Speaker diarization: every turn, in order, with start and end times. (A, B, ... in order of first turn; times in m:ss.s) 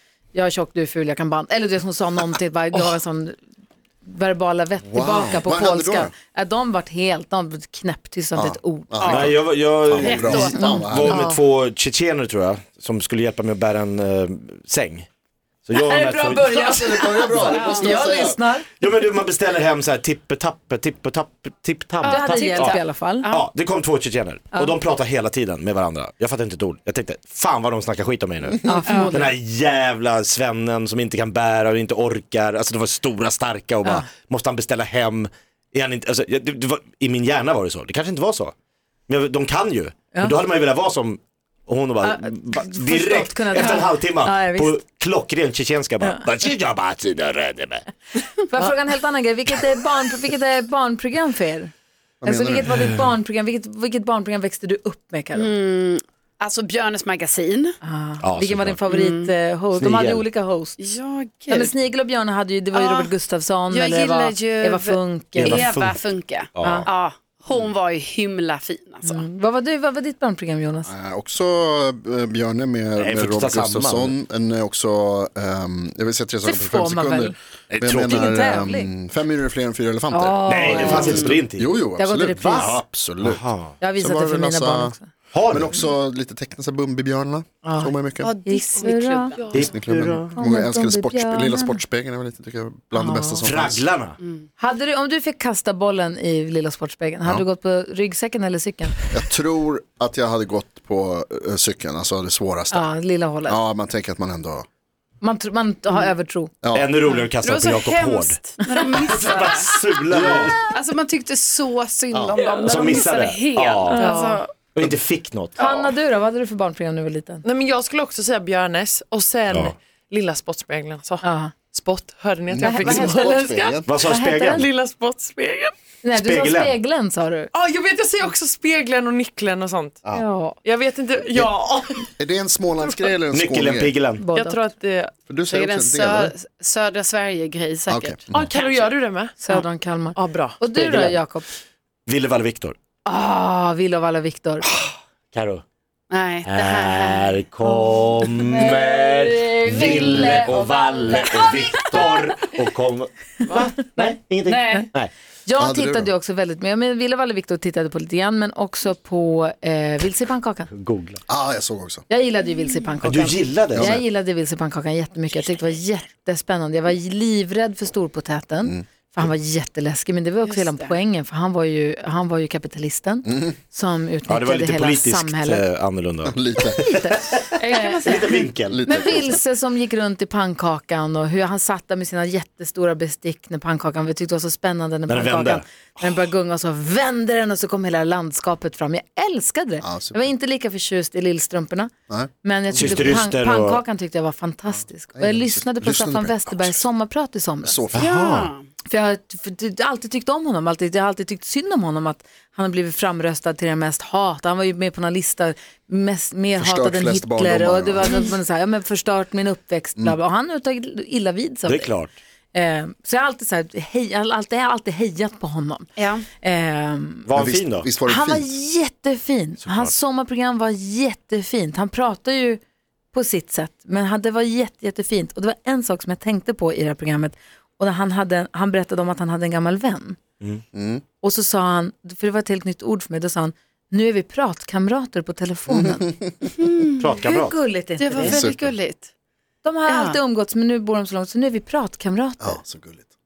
0:00.3-0:03.4 A
0:04.0-0:09.3 A
0:04.8-0:06.1 B
0:08.3-0:11.3 B
0:09.0-0:09.3 C
0:09.0-0:15.1 D
0:10.0-0:10.8 C
0:10.6-0:11.3 A
0:15.6-0:16.7 D
0:15.7-0:18.7 A
0:16.5-0:18.4 B
0:17.5-0:18.0 C
0:18.8-0:38.5 D
0:22.0-0:23.4 C
0:22.1-0:23.3 A
0:24.5-0:24.8 A
0:28.6-0:29.4 A
0:28.9-0:29.2 C
0:39.1-0:47.8 D
0:42.0-0:44.8 A
0:48.4-0:51.7 A
0:52.2-0:52.8 B
0:52.2-0:55.5 A
0:55.3-0:57.7 C
0:57.8-1:00.8 A
0:58.2-0:58.8 D
0:58.9-0:59.3 C
0:59.8-1:00.2 D
1:00.8-1:01.7 C
1:01.5-1:05.6 A
1:02.7-1:03.1 C
1:03.7-1:09.2 C
1:05.4-1:06.9 D
1:06.6-1:06.9 A
1:09.0-1:10.9 A
1:10.8-1:23.4 B
1:13.0-1:14.2 D
1:16.4-1:17.3 A
1:17.7-1:18.2 D
1:17.9-1:18.9 A
1:20.1-1:21.4 A
1:20.5-1:21.7 D
1:21.9-1:22.8 A
1:23.2-1:23.7 D
1:23.8-1:25.1 A
1:24.0-1:25.0 B
1:25.3-1:25.7 D
1:25.5-1:28.3 B
1:27.6-1:29.4 A
1:28.2-1:29.4 C
1:29.4-1:29.7 E
1:29.5-1:30.4 D
1:29.5-1:33.8 B
1:30.4-1:31.8 A
1:32.9-1:33.4 A
1:33.4-1:34.2 D
1:34.6-1:39.0 A
1:39.1-1:42.9 B
1:42.7-1:43.6 A
1:43.4-1:44.6 B
1:45.2-1:46.5 A
1:46.6-1:46.9 B
1:46.7-1:48.4 D
1:47.0-1:49.8 C
1:48.7-1:49.0 E
1:48.9-1:50.6 D
1:50.1-1:50.6 B
1:50.7-1:54.7 C
1:52.3-1:52.9 E
1:52.6-1:54.2 D
1:53.9-1:54.2 A
1:53.9-1:54.4 E
1:54.7-1:55.6 D
1:55.6-1:57.4 A
1:55.6-1:55.9 E
1:57.4-2:05.7 E
1:59.5-1:59.7 D
2:01.2-2:01.5 A
2:02.5-2:03.9 B
2:02.6-2:03.4 A
2:03.8-2:04.7 D
2:06.0-2:07.5 A
2:06.1-2:06.8 D
2:07.5-2:10.0 E
2:10.1-2:10.6 A
2:10.5-2:12.1 E
2:12.2-2:14.0 B
2:12.8-2:13.1 E
2:13.3-2:14.2 D
2:14.2-2:14.6 A
2:14.3-2:15.1 E
2:15.3-2:16.3 B
2:15.5-2:18.9 C
2:17.9-2:18.5 B
2:18.3-2:20.6 E
2:19.4-2:21.5 A
2:20.8-2:21.2 D
2:22.1-2:22.8 D
2:23.0-2:24.6 A
2:24.7-2:25.6 D
2:26.1-2:27.4 C
2:26.4-2:33.1 D
2:28.5-2:32.2 A
2:33.5-2:33.8 C
2:33.8-2:35.1 D
2:34.4-2:34.9 C
2:35.4-2:40.7 A
2:35.6-2:36.1 B
2:40.7-2:41.2 D
2:41.3-2:42.0 B
2:42.1-2:55.6 A
2:43.0-2:44.0 D
2:43.7-2:44.0 B
2:50.4-2:50.9 C
2:53.2-2:53.5 B
2:54.3-2:58.8 D
2:56.2-2:56.8 B
2:56.7-3:17.8 A
2:57.6-2:57.9 C
2:58.0-2:58.3 E
2:58.6-2:59.4 B
3:05.1-3:05.6 D
3:09.8-3:10.3 B
3:12.1-3:13.2 B
3:12.8-3:13.8 D
3:15.2-3:16.8 B
3:17.6-3:18.1 B
3:17.9-3:18.5 D
3:18.0-3:18.6 C
3:18.9-3:32.0 A
3:26.6-3:28.2 B
3:31.6-3:32.1 D
3:32.5-3:35.9 A
3:36.0-3:36.2 C
3:36.4-3:37.3 A
3:37.2-3:37.9 D
3:37.3-3:38.5 B
3:38.0-3:42.6 A
3:39.6-3:39.9 D
3:43.1-3:50.2 A
3:50.7-3:51.0 B
3:51.2-3:56.1 A
3:55.7-3:56.1 B
3:56.6-3:57.1 C
3:57.0-3:57.6 D
3:57.2-3:58.4 A
3:58.0-3:59.1 C
3:58.2-3:58.8 B
3:59.6-4:02.6 A
3:59.9-4:00.2 C
4:02.4-4:03.1 B